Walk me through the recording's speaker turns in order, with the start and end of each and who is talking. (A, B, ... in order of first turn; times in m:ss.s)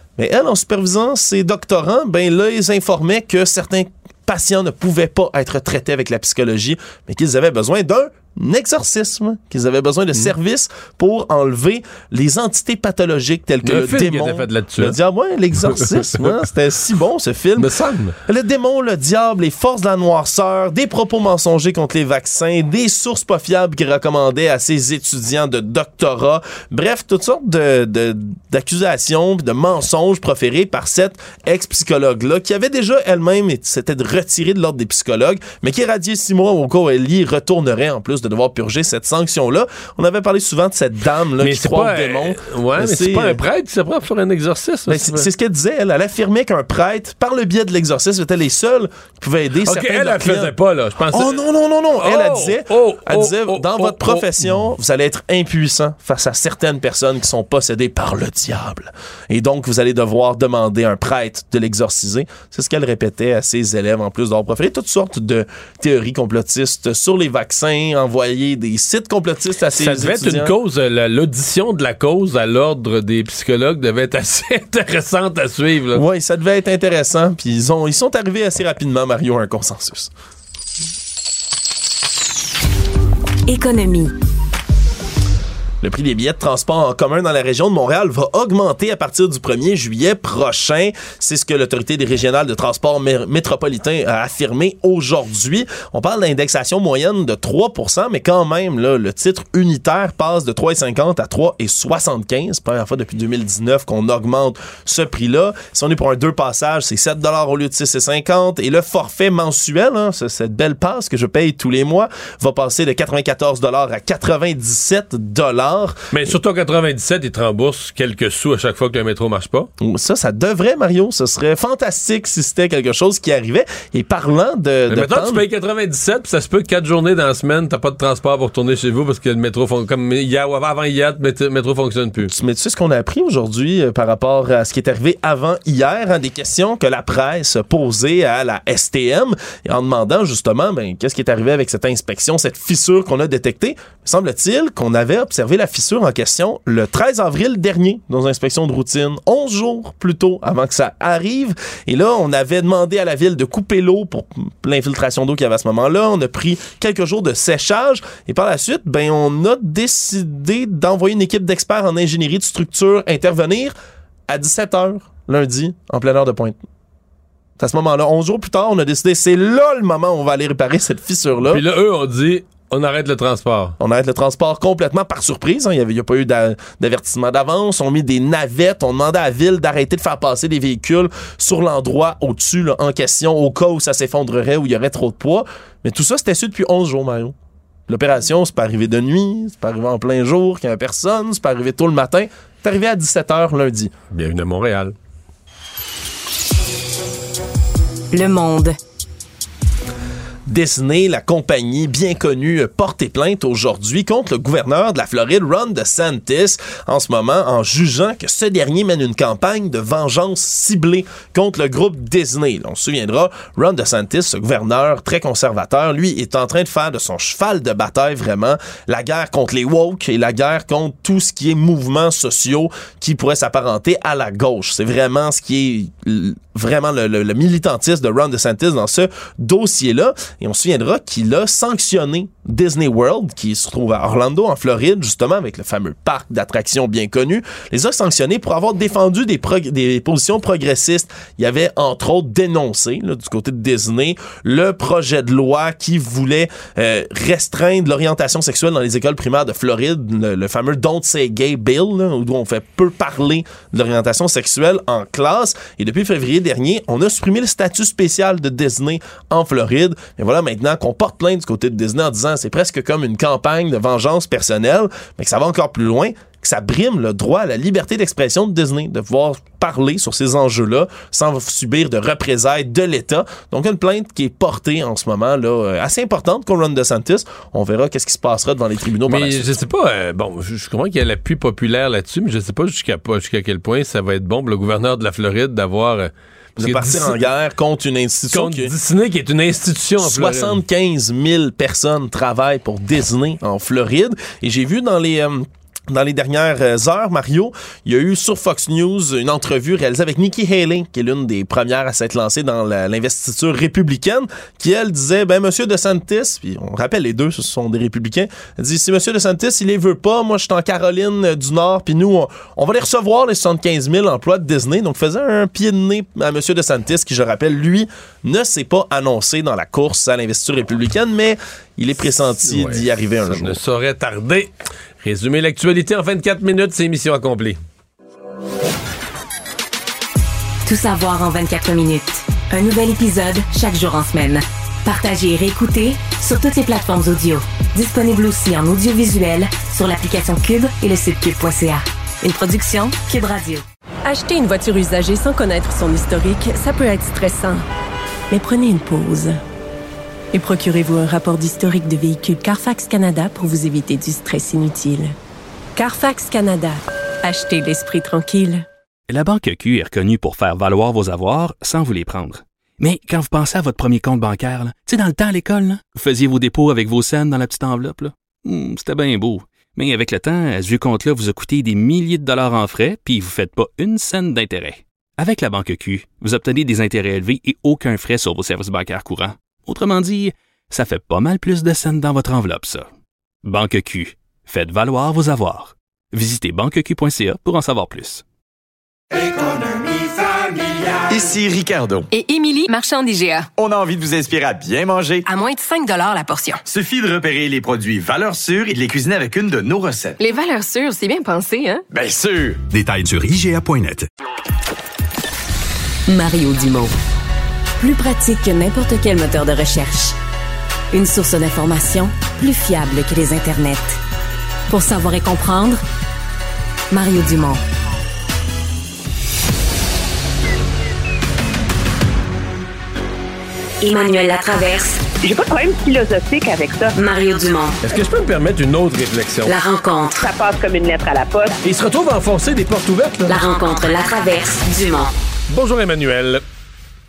0:00.2-0:17.7 A
0:13.6-0:15.0 B
0:15.6-0:16.4 B
0:17.6-0:18.2 B
0:18.2-0:43.4 A
0:41.4-0:45.3 B
0:44.9-0:50.5 A
0:49.6-0:51.4 B
0:51.1-1:10.5 A
0:52.0-0:54.5 B
1:09.7-1:16.0 B
1:15.9-1:20.1 A
1:23.5-1:24.1 C
1:25.8-1:56.3 A
1:56.1-1:59.7 B
1:59.8-2:05.4 A
2:04.9-2:12.3 B
2:12.2-2:43.7 A
2:44.3-2:46.6 A
2:47.6-2:51.6 A
2:51.4-2:53.8 B
2:53.8-3:07.3 A
3:07.9-3:13.9 A
3:14.1-3:14.9 B
3:18.1-3:18.8 C
3:20.5-4:39.5 A
4:39.1-4:47.2 B
4:46.6-4:48.7 A
4:48.3-4:50.6 B
4:50.0-5:23.6 A
5:22.4-5:24.5 B
5:25.0-5:27.6 B
5:30.6-5:43.6 C
5:44.0-5:47.6 D
5:48.3-5:49.4 D
5:50.3-5:55.1 D
5:55.8-5:58.6 D
5:59.1-6:22.9 E
6:23.4-6:28.2 E
6:31.0-6:32.1 F
6:32.1-6:33.5 G
6:33.6-6:35.2 F
6:35.2-6:36.6 G
6:36.6-6:40.2 F
6:40.2-6:41.8 G
6:41.9-6:44.0 F
6:46.1-6:46.9 C
6:47.8-6:50.2 C
6:50.9-6:54.0 C
6:54.7-6:55.8 C
6:56.9-6:57.6 C
7:03.8-7:05.0 C
7:05.2-7:07.0 H
7:07.0-7:07.8 C
7:07.8-7:09.5 B
7:09.4-7:10.2 C
7:10.2-7:11.5 H
7:11.6-7:13.3 B
7:13.3-7:15.1 C
7:15.5-7:16.4 B